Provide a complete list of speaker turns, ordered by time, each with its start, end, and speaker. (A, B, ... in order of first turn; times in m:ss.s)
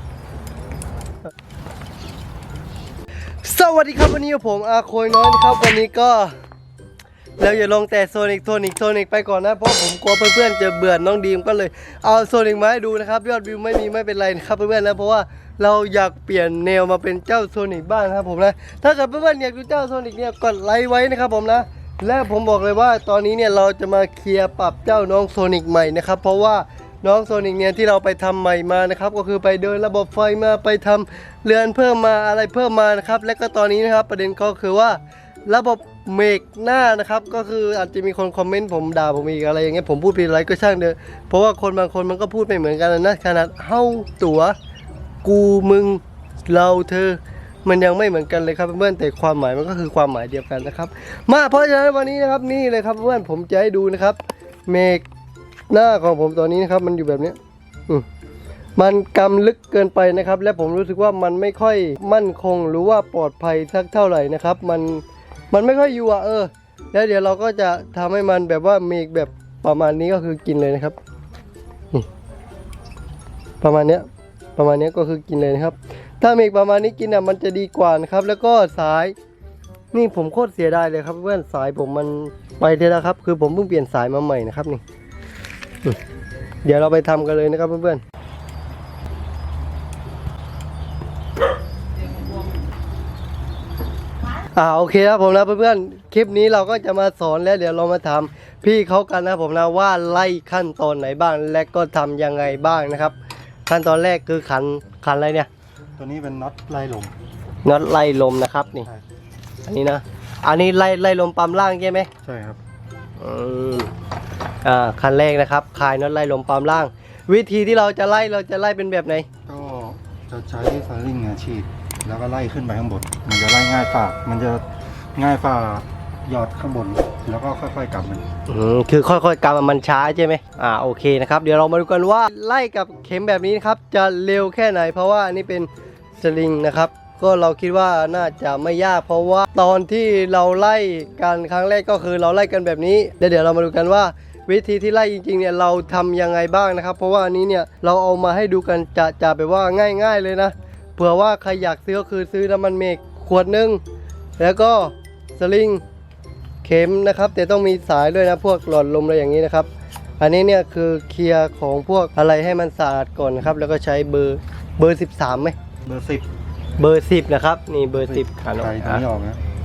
0:03.4-0:06.4 A
0:07.4-0:44.6 A
0:45.2-0:55.0 A
0:55.7-0:57.4 A
0:58.8-1:11.0 A
1:13.6-1:19.2 A
1:19.9-1:24.8 A
1:26.6-1:28.0 A
1:34.6-1:43.2 A
1:43.7-1:45.5 A
1:46.0-1:47.2 B
1:47.6-1:48.9 A
1:49.7-1:52.1 A
1:52.2-1:52.6 B
1:53.2-1:53.9 A
1:54.6-1:59.3 A
1:59.5-2:08.3 B
2:08.5-2:33.8 A
2:34.4-2:35.8 A
2:36.6-2:39.7 A
2:40.2-2:45.6 A
2:45.8-2:46.3 B
2:46.8-2:49.0 A
2:48.0-2:49.4 B